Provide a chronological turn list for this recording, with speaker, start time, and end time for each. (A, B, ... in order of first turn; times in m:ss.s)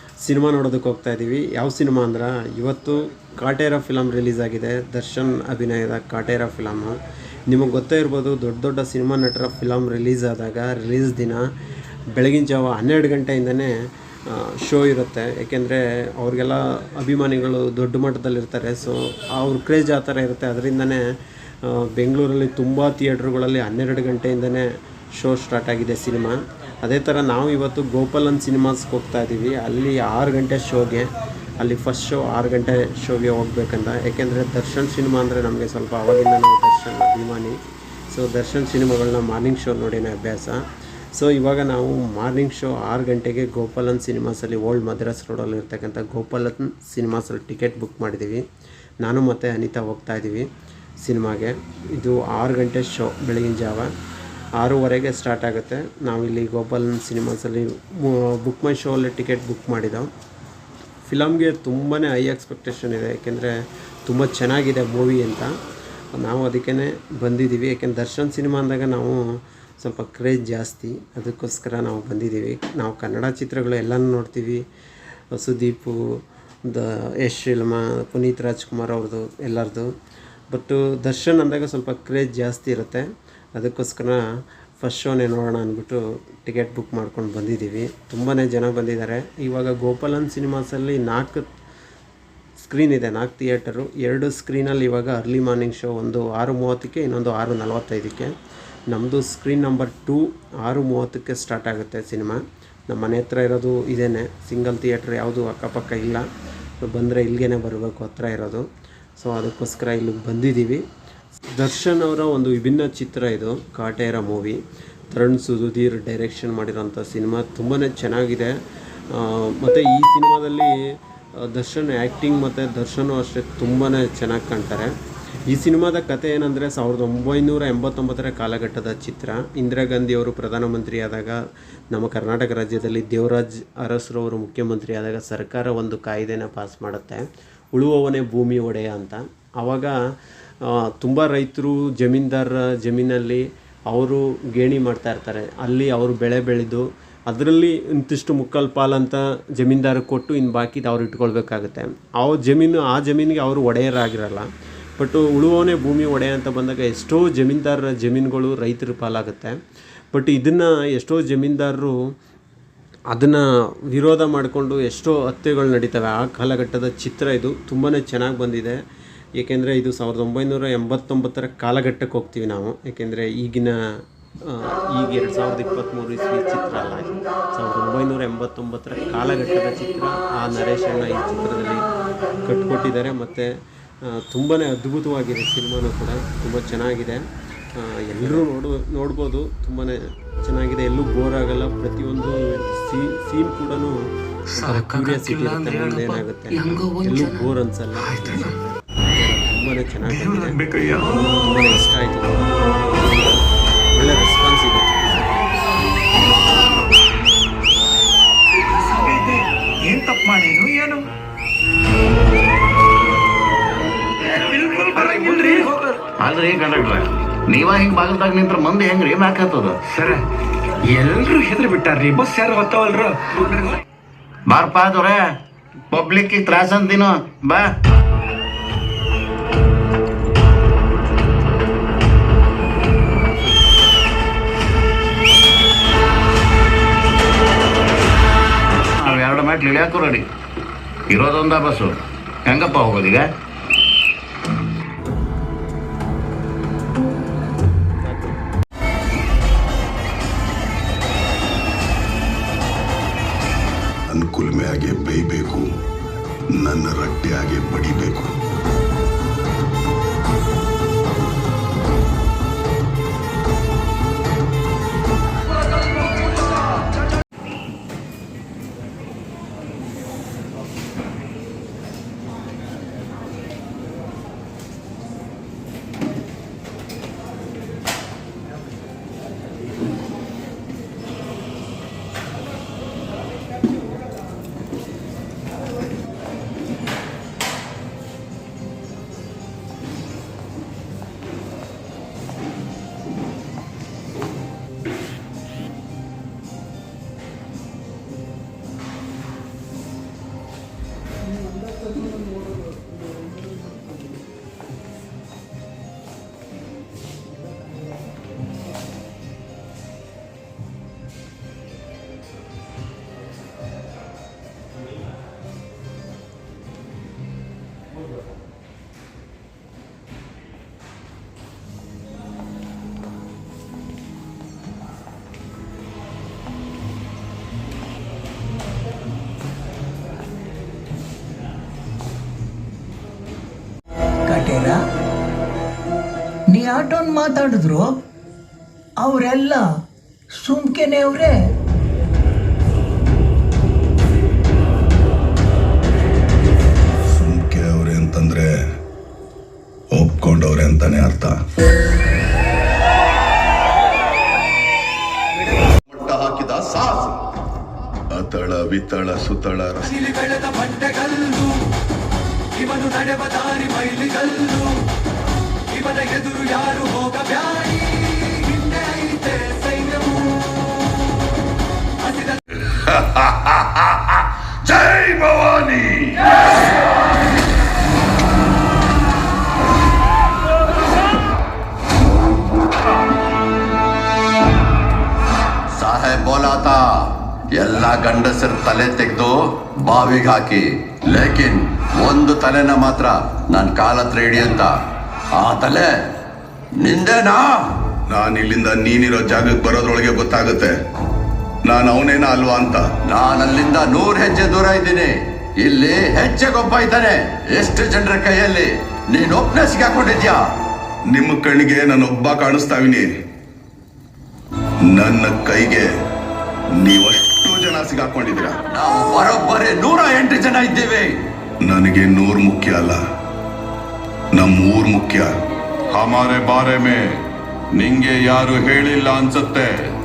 0:00.2-0:11.4 A
0:12.1-0:13.7 A
0:14.3-0:21.0 A
0:21.6-0:37.6 A
0:38.1-0:40.6 A
0:41.2-0:48.4 A
0:49.0-0:50.5 A
0:51.0-0:53.9 A
0:54.6-1:00.1 A
1:01.1-1:03.6 A
1:04.1-1:05.5 A
1:06.2-1:09.2 A
1:09.8-1:14.6 A
1:15.4-1:16.0 A
1:16.7-1:19.9 A
1:20.5-1:24.2 A
1:24.8-1:31.5 A
1:32.6-1:38.3 A
1:38.9-1:46.3 A
1:46.8-1:48.6 A
1:49.2-1:50.8 A
1:51.6-1:58.6 A
1:59.1-2:00.8 A
2:01.4-2:04.9 A
2:05.5-2:11.4 A
2:11.9-2:20.0 A
2:20.6-2:39.6 A
2:40.1-2:42.0 A
2:43.1-2:48.8 A
2:49.4-2:53.8 A
2:54.4-3:01.8 A
3:02.4-3:03.5 A
3:04.0-3:07.2 A
3:07.8-3:14.0 A
3:14.5-3:23.2 A
3:14.9-3:15.4 B
3:16.7-3:17.4 B
3:20.2-3:20.9 C
3:23.9-3:25.4 A
3:29.0-3:29.3 C
3:29.9-3:31.0 C
3:34.4-3:36.0 C
3:36.2-3:39.8 D
3:39.9-3:40.2 C
3:40.9-3:43.7 C
3:44.5-3:45.4 D
3:45.9-3:47.7 D
3:59.0-4:00.3 D
4:01.1-4:03.3 D
4:14.1-4:15.7 E
4:16.6-4:18.3 E
5:34.3-5:34.8 F
5:36.5-5:38.0 F
5:39.0-5:39.6 F
5:40.4-5:41.4 F
5:47.1-5:48.5 E
5:50.0-5:51.4 E
5:55.9-5:57.1 E
5:58.1-6:00.0 E
6:00.3-6:01.5 C
6:02.6-6:04.7 C
6:05.8-6:09.8 C
6:14.7-6:16.0 G
6:25.7-6:34.7 G
6:35.4-6:36.0 G
6:36.8-6:37.7 G
6:38.1-6:40.8 E
6:41.7-6:42.9 E
6:43.1-6:50.4 G
6:51.1-6:53.1 E
6:54.9-6:55.9 E
6:56.8-6:58.6 E
6:58.7-7:01.1 G
7:01.6-7:03.0 E
7:04.4-7:05.3 E
7:05.9-7:07.2 B
7:07.7-7:09.9 B